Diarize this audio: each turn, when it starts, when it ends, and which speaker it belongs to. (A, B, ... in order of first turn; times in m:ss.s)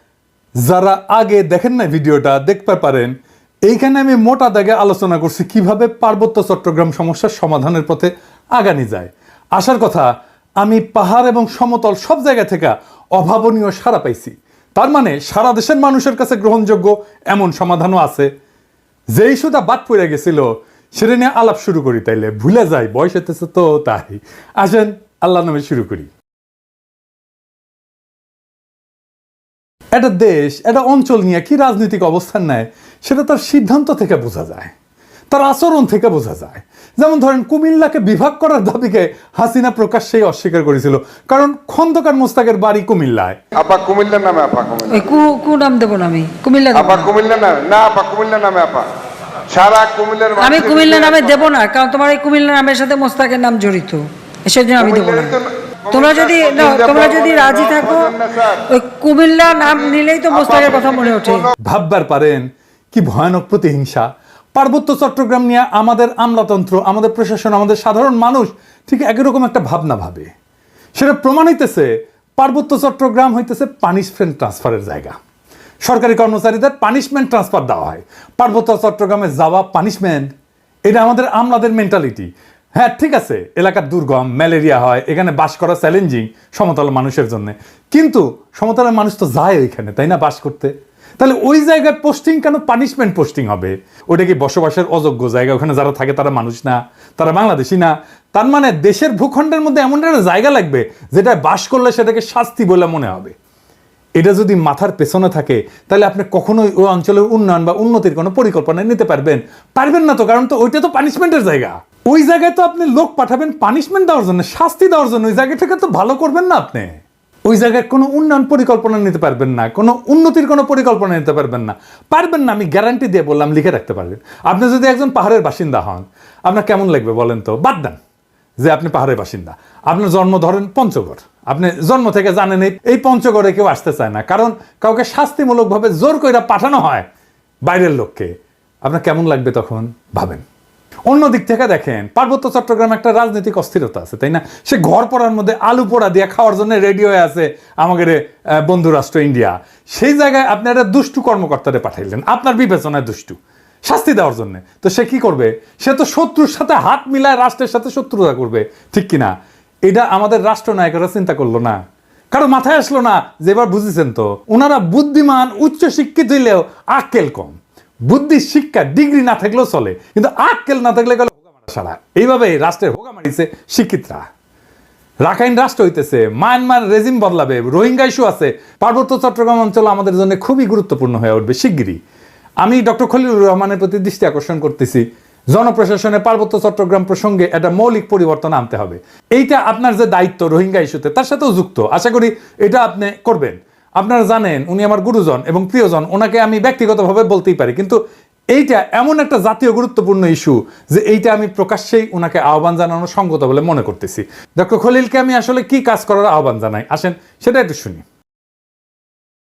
0:00.6-0:03.1 A
0:03.6-0:10.1 A
0:10.6-0:18.3 A
0:19.1-0:26.1 A
0:29.9-0:34.7 A
0:35.3-0:43.4 A
0:43.5-0:45.2 B
0:44.9-0:47.1 C
0:46.7-0:48.9 B
0:49.5-0:51.5 B
0:50.4-0:55.3 C
0:54.8-0:58.7 B
0:55.9-0:58.1 C
0:58.7-1:01.4 C
0:59.5-1:01.5 B
1:01.6-1:10.3 A
1:11.0-1:15.2 A
1:15.8-1:20.3 A
1:20.8-1:43.3 A
1:44.2-2:08.0 A
2:08.6-2:17.1 A
2:17.6-2:20.4 A
2:21.1-2:39.3 A
2:39.8-2:41.8 A
2:42.3-2:54.2 A
2:55.2-3:02.0 A
3:02.6-3:18.0 A
3:18.5-3:28.0 A